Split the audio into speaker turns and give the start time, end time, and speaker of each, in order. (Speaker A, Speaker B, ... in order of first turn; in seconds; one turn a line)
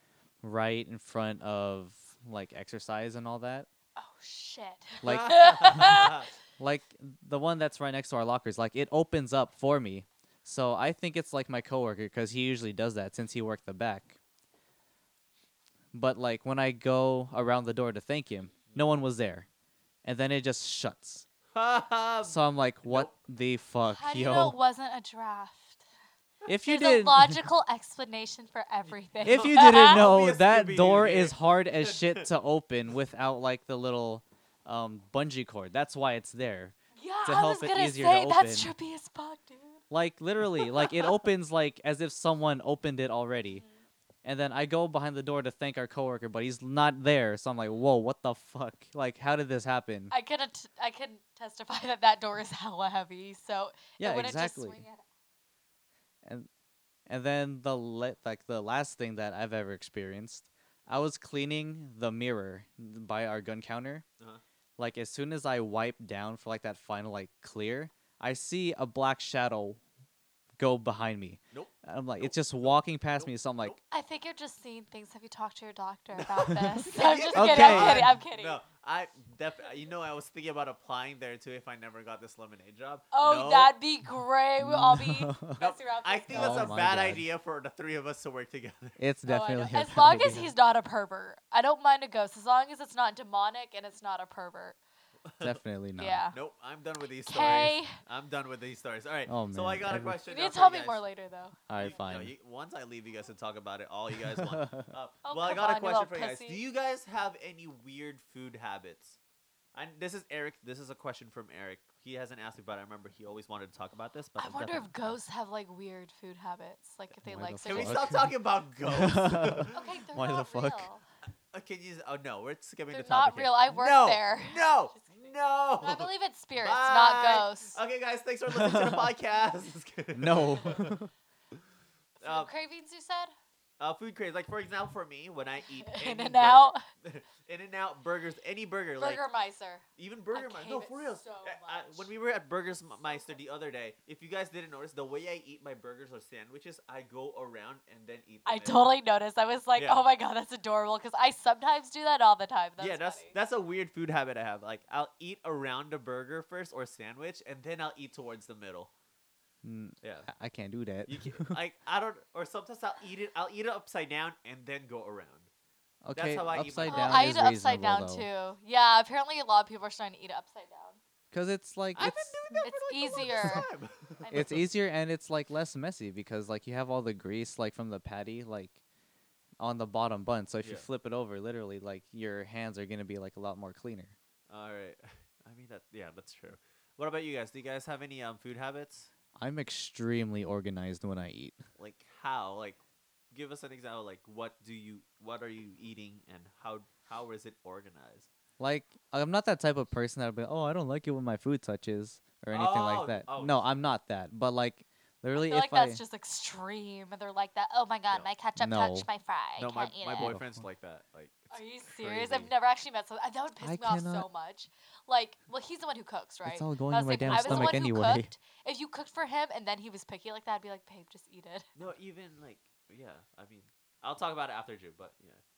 Speaker A: 0.4-3.7
Speaker B: 4.0-6.2
Speaker A: 5.0-6.1
Speaker C: 5.0-6.3
Speaker A: 6.6-14.2
Speaker A: 15.9-19.5
Speaker A: 20.0-21.2
Speaker C: 21.5-23.1
Speaker A: 22.2-24.6
Speaker B: 23.8-25.8
Speaker A: 26.5-27.4
Speaker B: 26.6-30.1
Speaker C: 29.2-32.3
Speaker A: 29.2-38.7
Speaker B: 37.0-39.8
Speaker A: 39.9-43.6
Speaker B: 40.5-41.1
Speaker B: 43.5-43.8
Speaker A: 44.2-50.1
Speaker B: 50.1-55.0
Speaker A: 54.0-54.8
Speaker A: 56.2-56.5
Speaker A: 57.1-64.0
Speaker A: 64.8-69.8
Speaker A: 70.6-73.8
Speaker C: 71.5-73.8
Speaker B: 73.9-78.6
Speaker C: 76.3-83.7
Speaker A: 77.3-78.2
Speaker B: 83.1-86.8
Speaker A: 84.6-85.5
Speaker C: 85.6-89.0
Speaker A: 86.3-87.2
Speaker A: 89.0-90.5
Speaker B: 89.2-94.8
Speaker C: 95.3-95.6
Speaker A: 95.4-96.2
Speaker B: 96.0-96.4
Speaker C: 96.3-101.0
Speaker B: 97.2-98.0
Speaker A: 99.3-100.2
Speaker B: 100.2-101.9
Speaker A: 101.7-102.3
Speaker C: 101.8-109.2
Speaker A: 104.4-104.9
Speaker B: 105.2-106.6
Speaker C: 109.7-115.1
Speaker B: 114.3-118.1
Speaker A: 117.2-120.9
Speaker C: 117.7-119.8
Speaker B: 119.7-121.0
Speaker C: 121.5-131.0
Speaker B: 122.9-125.1
Speaker B: 125.8-127.8
Speaker A: 128.5-129.1
Speaker A: 130.2-131.1
Speaker B: 132.2-133.3
Speaker C: 132.2-132.5
Speaker C: 133.8-139.2
Speaker B: 135.8-136.8
Speaker B: 139.0-142.1
Speaker C: 140.0-148.9
Speaker B: 148.4-153.3
Speaker C: 149.8-150.0
Speaker C: 152.8-158.9
Speaker A: 159.6-161.6
Speaker C: 160.0-160.3
Speaker C: 161.1-165.5
Speaker A: 166.0-168.3
Speaker C: 166.2-167.4
Speaker B: 166.8-171.0
Speaker A: 171.3-172.6
Speaker C: 171.9-174.7
Speaker B: 172.6-173.7
Speaker B: 174.2-174.7
Speaker A: 174.3-178.8
Speaker A: 179.6-184.2
Speaker C: 180.6-180.9
Speaker C: 184.5-189.1
Speaker A: 189.4-191.6
Speaker C: 191.8-198.3
Speaker A: 198.6-206.0
Speaker C: 202.5-203.7
Speaker B: 205.3-210.3
Speaker A: 208.6-209.1
Speaker C: 209.6-212.5
Speaker A: 210.2-210.7
Speaker B: 211.5-221.7
Speaker A: 213.6-214.3
Speaker A: 216.4-218.3
Speaker C: 217.2-217.8
Speaker C: 221.8-225.4